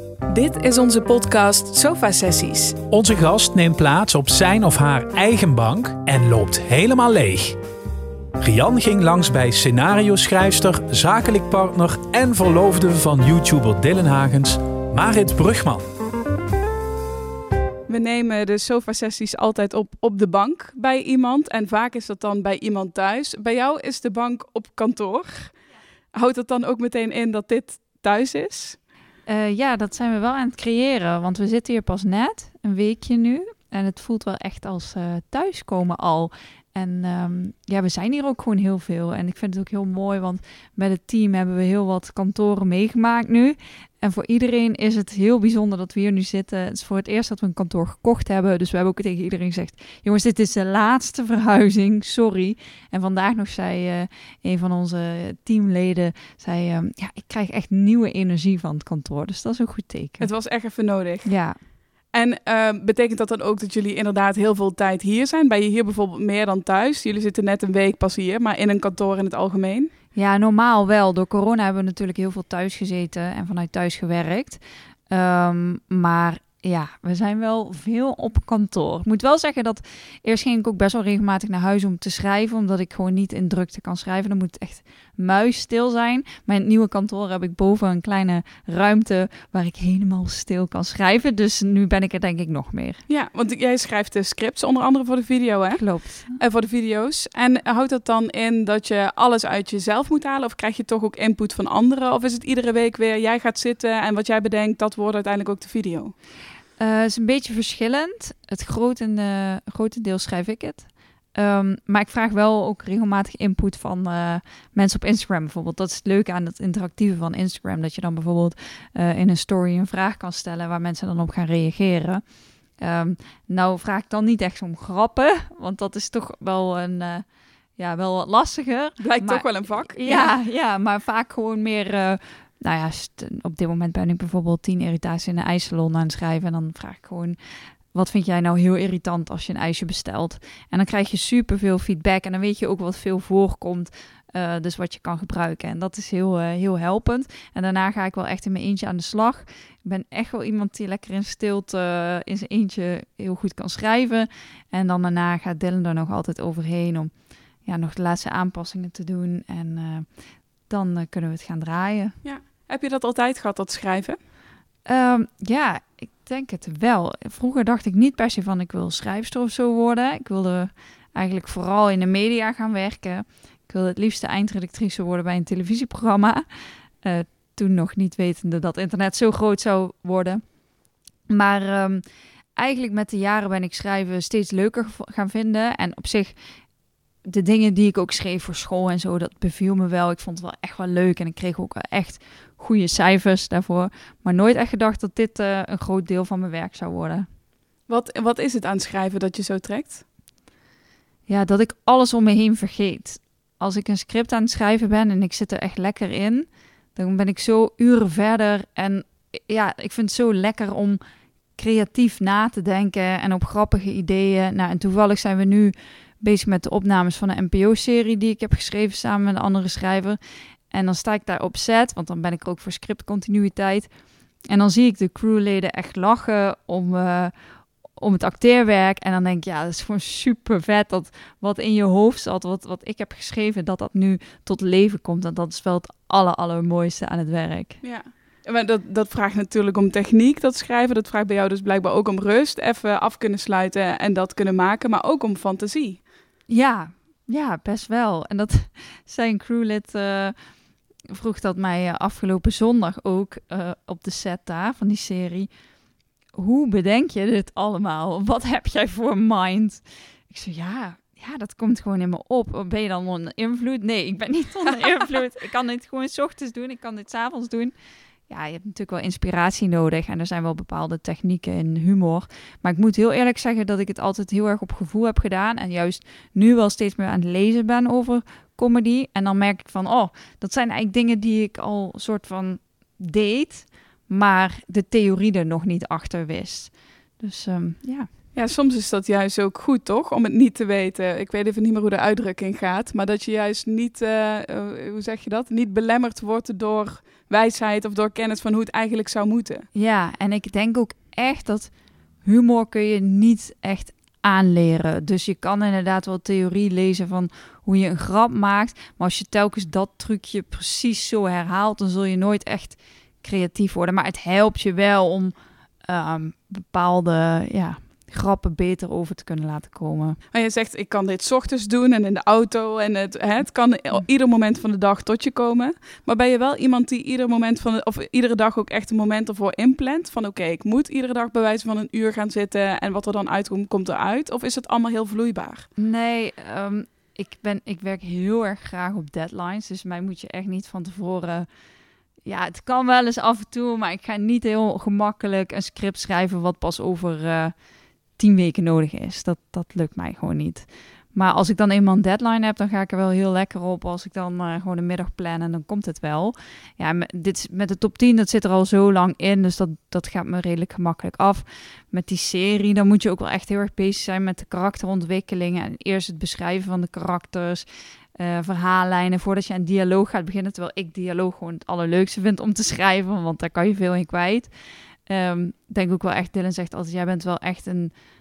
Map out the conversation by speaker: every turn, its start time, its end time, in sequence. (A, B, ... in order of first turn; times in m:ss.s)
0:00.3-0:02.8 A
0:02.9-0:07.6 B
0:08.4-0:15.9 B
0:17.9-0:25.6 A
0:26.1-0:28.8 A
0:29.3-1:00.3 C
1:00.2-1:01.3 A
1:01.2-1:01.6 C
1:02.1-1:09.9 A
1:10.2-1:33.0 C
1:33.1-1:35.8 A
1:35.8-1:36.4 C
1:36.3-1:46.1 A
1:46.8-2:02.2 C
2:02.8-2:07.2 C
2:07.8-2:17.4 C
2:09.0-2:10.3 A
2:17.9-2:37.1 C
2:37.6-2:40.1 C
2:40.7-2:42.2 C
2:42.2-2:44.2 A
2:44.9-2:56.5 C
2:57.0-3:00.4 C
3:01.3-3:02.0 C
3:02.6-3:06.4 C
3:07.2-3:17.3 C
3:17.9-3:20.0 A
3:21.3-3:31.0 C
3:31.6-3:40.2 C
3:40.7-3:43.9 C
3:44.5-3:47.4 C
3:48.0-3:57.8 C
3:57.8-4:06.0 A
4:06.5-4:10.4 C
4:11.1-4:15.5 C
4:16.3-4:27.8 C
4:28.3-4:48.1 C
4:48.4-4:59.7 A
4:59.7-5:01.7 C
5:02.2-5:20.2 C
5:20.3-5:35.7 A
5:35.8-5:41.5 C
5:42.2-5:47.6 C
5:48.2-6:14.5 C
6:15.1-6:17.9 C